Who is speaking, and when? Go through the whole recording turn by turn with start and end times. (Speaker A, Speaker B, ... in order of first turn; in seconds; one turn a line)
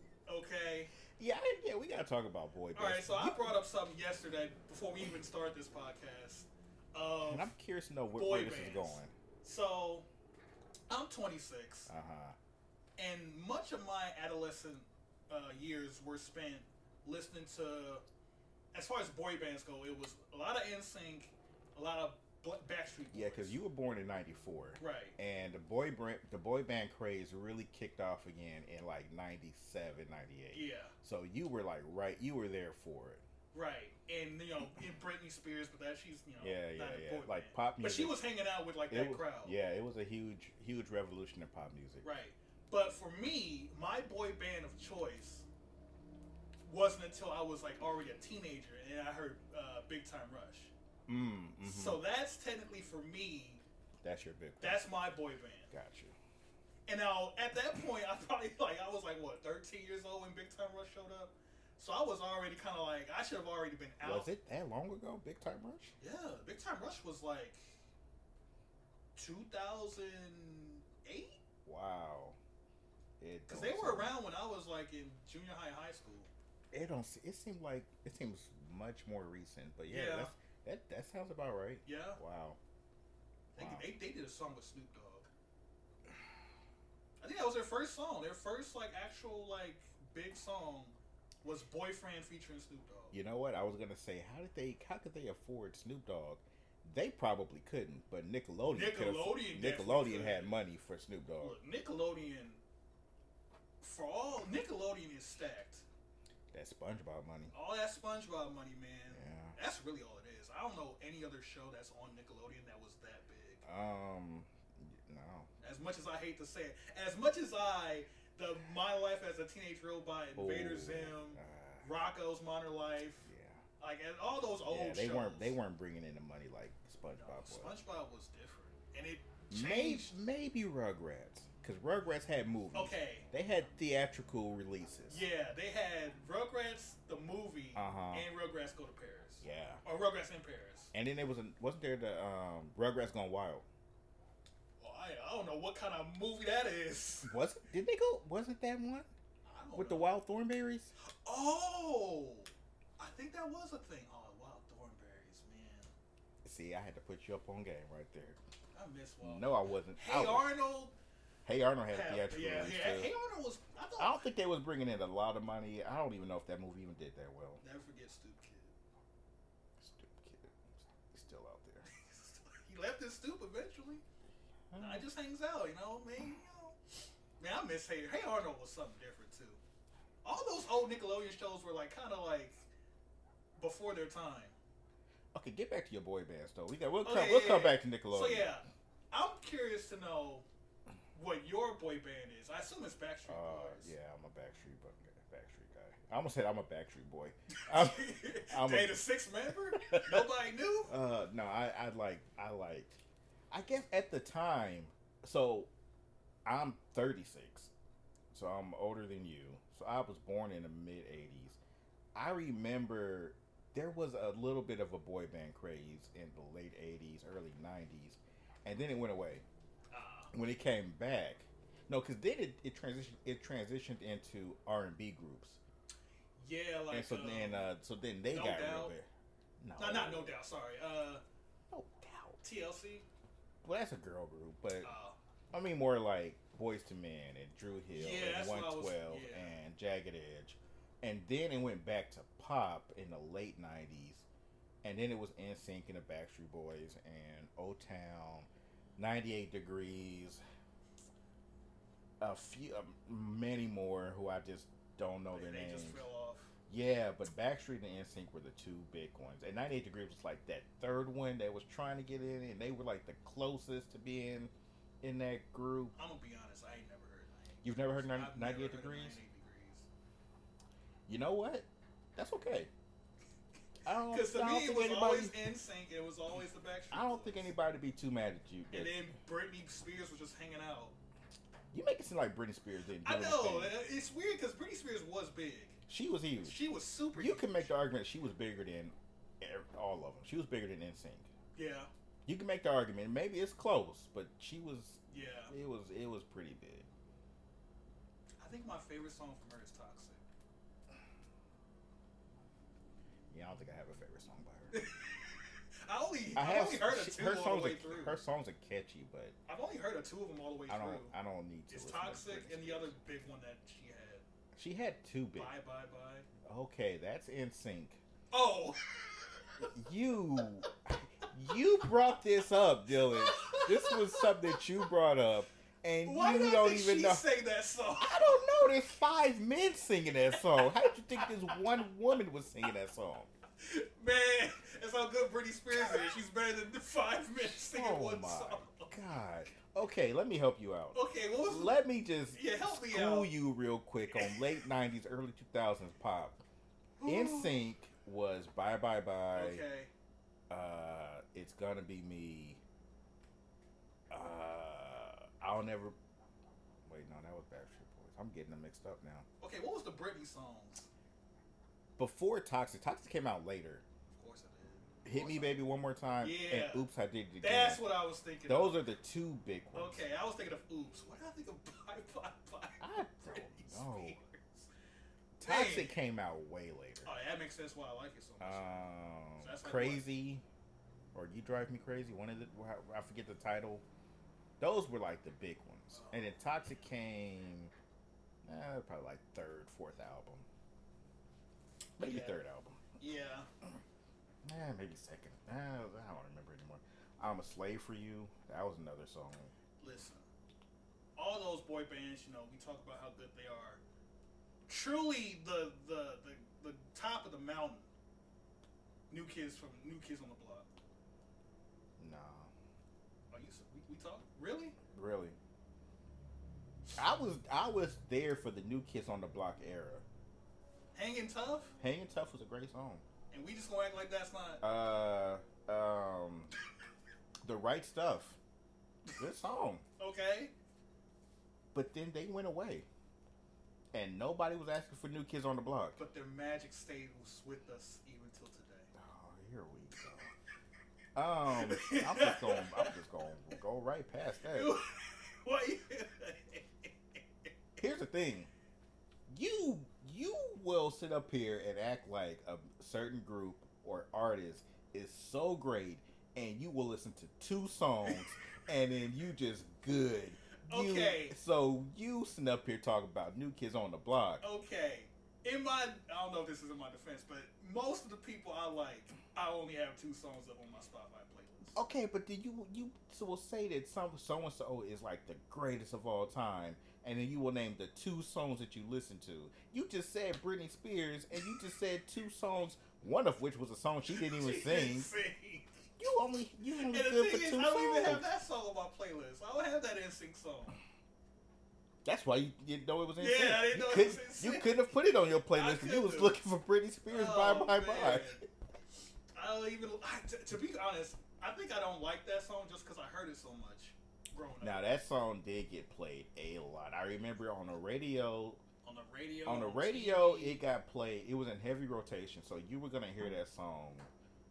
Speaker A: 0.3-0.9
Speaker B: 1.2-3.6
Speaker A: 2.7-7.5
Speaker B: 7.2-9.1
Speaker A: 8.1-10.1
Speaker A: 10.9-11.9
Speaker B: 11.9-12.4
Speaker A: 13.0-18.0
Speaker A: 18.7-23.6
Speaker B: 23.1-33.2
Speaker A: 24.8-25.1
Speaker A: 30.5-30.9
Speaker A: 33.5-39.5
Speaker B: 36.4-38.2
Speaker B: 38.9-42.0
Speaker A: 42.0-45.5
Speaker A: 46.6-50.7
Speaker B: 51.1-52.0
Speaker A: 51.6-53.6
Speaker B: 54.0-54.9
Speaker A: 54.6-55.7
Speaker B: 55.7-56.1
Speaker A: 56.9-64.3
Speaker B: 64.0-65.9
Speaker A: 66.0-67.6
Speaker A: 69.2-71.4
Speaker B: 71.7-72.4
Speaker B: 73.2-74.2
Speaker A: 73.5-76.3
Speaker B: 76.7-82.6
Speaker A: 79.9-80.3
Speaker A: 81.8-82.2
Speaker A: 83.5-85.3
Speaker B: 83.5-83.8
Speaker A: 87.2-93.2
Speaker B: 93.1-101.6
Speaker A: 98.7-100.5
Speaker A: 101.4-102.6
Speaker A: 103.8-105.8
Speaker B: 106.5-107.5
Speaker A: 107.5-113.6
Speaker B: 109.1-109.5
Speaker B: 113.6-115.5
Speaker A: 115.6-123.3
Speaker B: 120.3-121.9
Speaker B: 123.2-123.6
Speaker A: 123.8-125.5
Speaker B: 124.7-127.8
Speaker A: 127.2-130.1
Speaker B: 129.5-135.2
Speaker A: 132.7-133.3
Speaker A: 135.1-140.9
Speaker B: 137.7-138.3
Speaker B: 139.4-139.8
Speaker B: 140.9-143.7
Speaker A: 144.8-147.3
Speaker B: 147.2-149.1
Speaker A: 149.4-150.2
Speaker B: 149.7-150.9
Speaker A: 151.2-155.9
Speaker B: 156.4-158.4
Speaker A: 158.7-160.9
Speaker B: 159.2-160.5
Speaker B: 161.4-163.1
Speaker A: 161.9-164.3
Speaker B: 164.0-167.6
Speaker A: 167.6-168.7
Speaker B: 169.8-171.9
Speaker A: 171.9-174.0
Speaker B: 174.7-175.0
Speaker A: 174.8-176.8
Speaker A: 177.4-179.6
Speaker A: 180.2-182.6
Speaker A: 183.6-184.5
Speaker B: 185.3-188.6
Speaker A: 187.0-190.4
Speaker A: 191.1-193.9
Speaker B: 193.3-199.1
Speaker A: 197.5-200.9
Speaker B: 199.7-200.3
Speaker B: 200.9-203.0
Speaker B: 203.5-205.7
Speaker B: 206.4-207.7
Speaker B: 208.3-211.6
Speaker B: 212.1-219.4
Speaker A: 219.9-220.3
Speaker B: 220.3-225.6
Speaker A: 226.4-227.7
Speaker B: 226.9-229.1
Speaker A: 228.3-228.9
Speaker B: 229.6-230.3
Speaker A: 229.8-231.2
Speaker B: 231.7-232.4
Speaker A: 232.4-233.1
Speaker B: 233.6-234.9
Speaker A: 234.8-235.2
Speaker B: 235.5-244.2
Speaker A: 237.9-239.6
Speaker B: 244.8-250.4
Speaker B: 252.2-256.1
Speaker A: 255.3-256.5
Speaker B: 256.7-265.9
Speaker A: 265.9-269.9
Speaker B: 267.6-269.2
Speaker B: 271.1-272.7
Speaker B: 273.8-275.4
Speaker A: 274.1-277.5
Speaker B: 276.9-279.0
Speaker A: 278.7-280.9
Speaker B: 281.7-283.8
Speaker A: 283.0-285.8
Speaker B: 285.9-286.6
Speaker A: 286.4-287.7
Speaker B: 287.1-291.3
Speaker A: 291.5-291.9
Speaker B: 292.2-296.9
Speaker A: 295.1-295.5
Speaker A: 298.4-300.2
Speaker B: 303.3-304.8
Speaker A: 304.7-308.2
Speaker B: 306.4-309.3
Speaker A: 309.5-311.1
Speaker B: 310.7-312.9
Speaker A: 311.7-314.2
Speaker B: 314.5-315.5
Speaker A: 315.4-316.3
Speaker B: 316.4-318.0
Speaker A: 318.3-319.7
Speaker B: 319.6-327.2
Speaker A: 322.9-324.9
Speaker A: 326.0-328.8
Speaker B: 328.0-333.3
Speaker A: 330.3-331.8
Speaker A: 333.6-338.9
Speaker B: 337.4-346.4
Speaker A: 340.9-341.8
Speaker A: 342.3-343.3
Speaker A: 344.1-344.6
Speaker A: 347.0-347.6
Speaker B: 347.1-349.6
Speaker A: 349.3-349.9
Speaker B: 350.5-352.6
Speaker B: 354.1-355.9
Speaker B: 356.9-359.2
Speaker A: 359.4-360.9
Speaker B: 362.0-363.8
Speaker A: 364.1-365.6
Speaker B: 365.0-367.8
Speaker A: 366.2-366.9
Speaker A: 367.4-368.8
Speaker B: 368.5-370.0
Speaker A: 369.7-374.7
Speaker B: 372.8-374.2
Speaker B: 375.4-377.1
Speaker A: 375.4-376.0
Speaker A: 377.0-380.1
Speaker B: 378.4-380.4
Speaker B: 381.1-383.8
Speaker B: 384.6-387.7
Speaker A: 385.9-386.3
Speaker B: 388.4-390.4
Speaker B: 392.0-392.8
Speaker A: 392.0-392.4
Speaker A: 393.0-393.5
Speaker B: 394.4-399.5
Speaker A: 399.8-400.3
Speaker A: 401.1-403.8
Speaker A: 404.7-407.9
Speaker A: 409.1-410.7
Speaker B: 412.0-412.5
Speaker A: 413.3-414.8
Speaker B: 414.9-415.4
Speaker B: 417.0-420.0
Speaker A: 420.9-421.7
Speaker B: 421.8-423.0
Speaker A: 423.3-424.6
Speaker B: 424.6-426.5
Speaker B: 427.4-428.4
Speaker B: 429.2-429.8
Speaker A: 430.0-430.5
Speaker B: 431.7-432.9
Speaker B: 433.9-436.0
Speaker A: 436.0-438.9
Speaker B: 438.9-440.3
Speaker B: 441.1-444.7
Speaker A: 441.5-443.0
Speaker A: 444.5-446.9
Speaker B: 447.8-448.5
Speaker B: 449.3-464.4
Speaker A: 460.6-461.4
Speaker A: 464.4-471.8
Speaker B: 471.7-485.1
Speaker A: 484.1-485.9
Speaker B: 486.0-488.2
Speaker A: 486.8-490.8
Speaker B: 492.0-498.4
Speaker A: 493.2-494.8
Speaker A: 495.5-496.4
Speaker A: 497.1-498.4
Speaker A: 499.3-504.8
Speaker B: 504.6-508.6
Speaker A: 508.8-510.6
Speaker B: 509.4-514.1